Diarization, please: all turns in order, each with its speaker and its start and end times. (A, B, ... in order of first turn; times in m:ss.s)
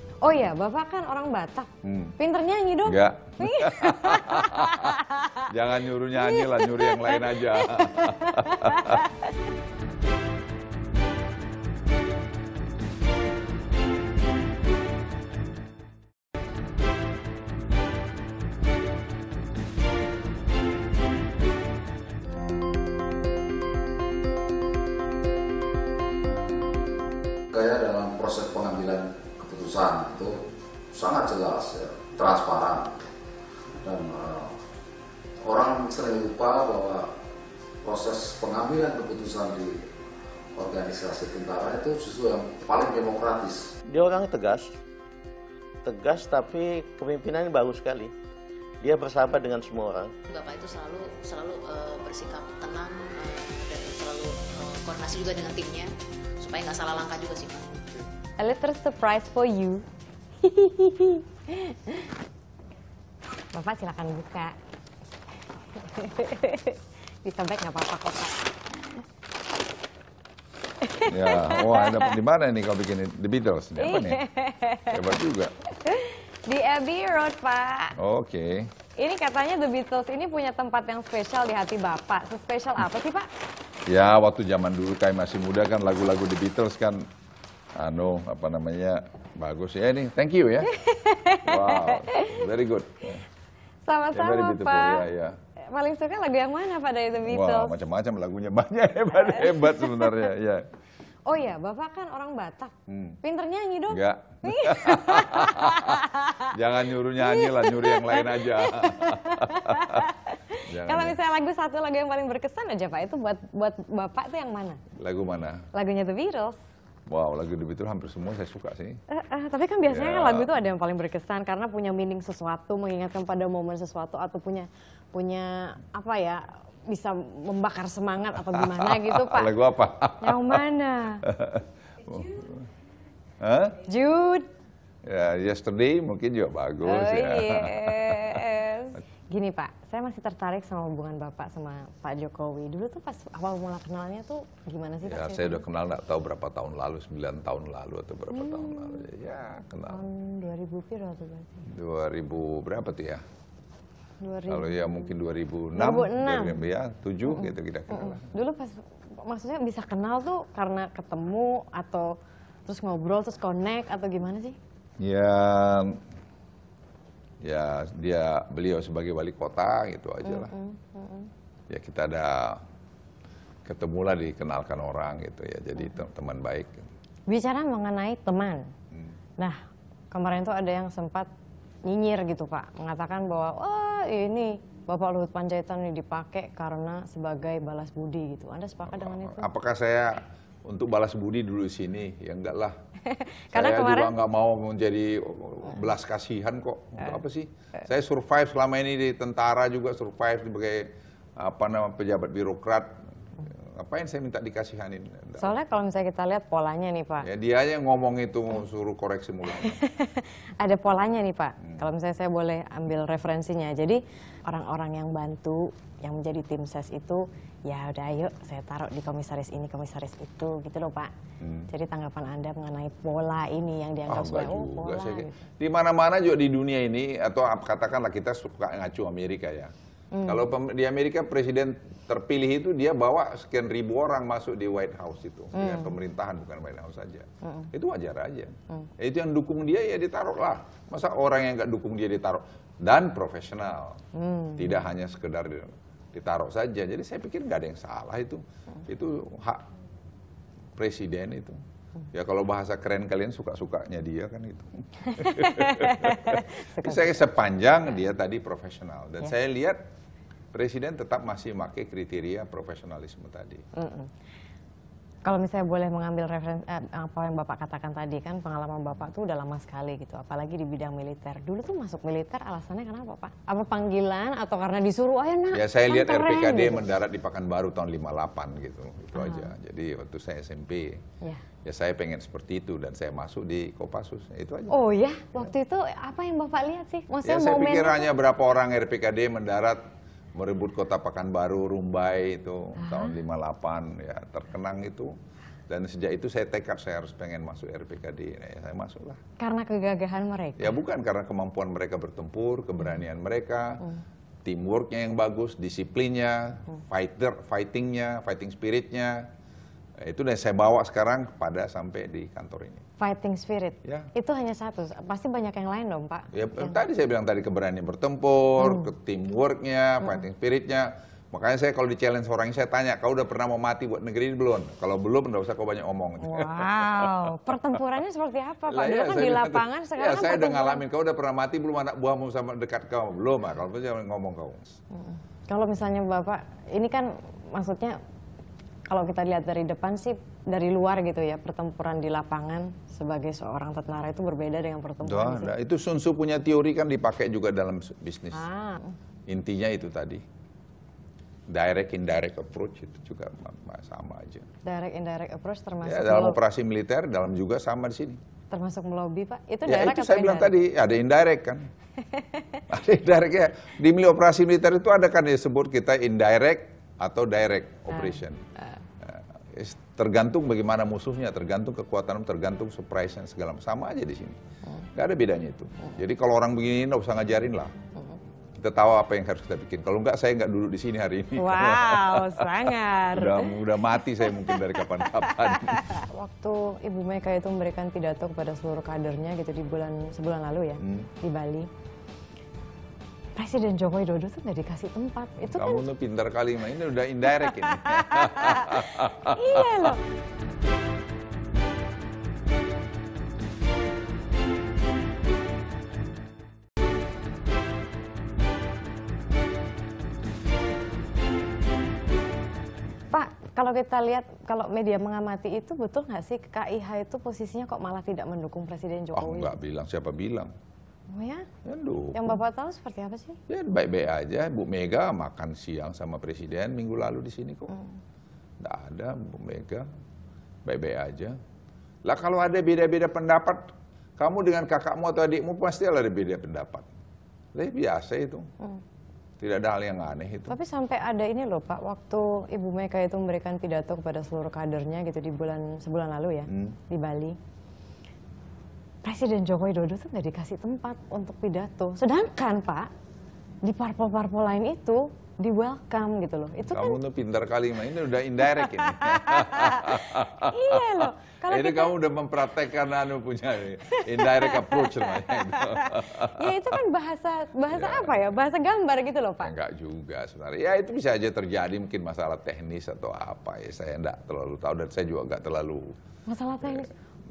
0:00.2-0:05.4 A
0:01.8-0:02.1 B
0:02.8-0:09.0 B
0:06.2-0:09.3 A
0:27.5-0:30.4 C
0:30.9-0:33.1 C
0:33.8-0:34.5 C
0:35.4-0:37.1 C
0:37.8-0:39.8 C
0:40.6-0:43.7 C
0:43.9-0:44.7 D
0:45.8-0:48.1 D
0:48.8-0:50.1 D
0:50.3-0:57.8 E
0:58.4-0:59.8 A
1:00.4-1:02.1 A
1:03.5-1:04.6 A
1:05.8-1:08.5 A
1:10.8-1:12.2 A
1:11.0-1:14.2 B
1:13.8-1:15.0 A
1:14.9-1:15.5 B
1:15.7-1:18.0 A
1:18.0-1:18.7 B
1:19.0-1:23.3 A
1:23.9-1:27.1 B
1:27.8-1:30.7 B
1:30.7-1:32.4 A
1:31.4-1:33.2 B
1:33.8-1:35.0 A
1:34.1-1:35.4 B
1:35.7-1:37.8 A
1:37.2-1:40.7 B
1:39.2-1:40.2 A
1:41.3-1:46.5 A
1:42.9-1:43.2 B
1:43.9-1:50.1 B
1:47.2-1:54.8 A
1:50.6-1:51.2 B
1:54.9-1:55.7 B
1:55.7-1:56.6 A
1:57.1-1:59.0 B
1:59.1-2:09.5 A
1:59.8-2:00.5 B
2:08.5-2:10.6 B
2:10.2-2:11.2 A
2:11.2-2:12.6 B
2:13.4-2:13.8 B
2:13.8-2:14.5 A
2:15.0-2:18.4 B
2:16.8-2:25.6 A
2:25.0-2:30.0 B
2:28.3-2:29.1 A
2:29.9-2:31.6 A
2:31.6-2:33.2 B
2:34.2-2:35.1 A
2:34.5-2:38.3 B
2:35.7-2:36.6 A
2:37.3-2:42.1 A
2:42.6-2:44.6 A
2:45.0-2:46.0 B
2:47.4-2:50.5 B
2:50.2-2:51.3 A
2:51.7-2:52.6 B
2:53.6-2:56.9 B
2:57.3-2:58.7 A
3:00.1-3:01.3 A
3:01.8-3:09.5 A
3:08.8-3:12.8 B
3:13.1-3:14.1 A
3:13.5-3:25.6 B
3:25.4-3:27.3 A
3:27.2-3:29.8 B
3:29.5-3:41.1 A
3:41.4-3:41.7 B
3:41.7-3:45.4 A
3:44.1-3:49.7 B
3:50.1-3:50.4 A
3:50.2-4:04.0 B
3:55.5-3:55.9 A
3:57.4-3:57.7 A
4:04.1-4:04.8 A
4:04.6-4:09.6 B
4:10.8-4:11.6 B
4:12.1-4:19.8 B
4:15.1-4:17.2 A
4:20.5-4:23.6 B
4:23.7-4:24.1 A
4:25.2-4:36.9 A
4:35.5-4:41.0 B
4:39.1-4:39.5 A
4:41.6-4:44.8 B
4:44.7-4:48.1 A
4:47.2-4:49.8 B
4:50.3-4:55.1 B
4:52.8-4:53.1 A
4:55.7-4:59.2 B
4:59.4-5:00.8 A
5:00.6-5:03.8 B
5:04.4-5:09.3 B
5:10.0-5:12.8 B
5:13.0-5:16.8 A
5:13.8-5:14.1 B
5:16.3-5:27.8 B
5:18.6-5:18.9 A
5:26.2-5:30.8 A
5:28.7-5:34.8 B
5:34.9-5:38.0 A
5:38.9-5:45.5 A
5:45.0-5:48.4 B
5:48.3-5:49.0 A
5:49.3-5:50.2 B
5:51.5-5:54.4 B
5:54.6-5:56.4 A
5:55.8-5:58.2 B
5:58.5-6:00.5 A
5:59.6-6:01.7 B
6:02.1-6:02.6 A
6:02.7-6:08.4 B
6:07.9-6:08.8 A
6:09.0-6:14.4 B
6:14.9-6:17.7 B
6:18.6-6:26.0 B
6:21.4-6:23.6 A
6:25.2-6:31.7 A
6:30.8-6:31.1 B
6:33.4-6:35.8 A
6:35.4-6:39.9 B
6:37.4-6:40.0 A
6:53.1-6:59.5 A
6:59.1-7:00.5 B
7:01.1-7:01.5 A
7:01.6-7:02.4 B
7:02.1-7:03.4 A
7:03.5-7:07.7 B
7:07.7-7:08.0 A
7:08.6-7:09.9 B
7:10.6-7:11.4 B
7:12.1-7:16.8 B
7:17.5-7:18.5 B
7:19.4-7:20.5 B
7:20.5-7:27.4 A
7:26.5-7:26.8 B
7:29.0-7:32.9 A
7:33.6-7:37.0 A
7:36.7-7:46.8 B
7:38.6-7:41.9 A
7:43.8-7:49.5 A
7:47.7-7:48.3 B
7:49.4-7:55.9 B
7:56.3-7:56.9 A
7:56.6-7:56.9 B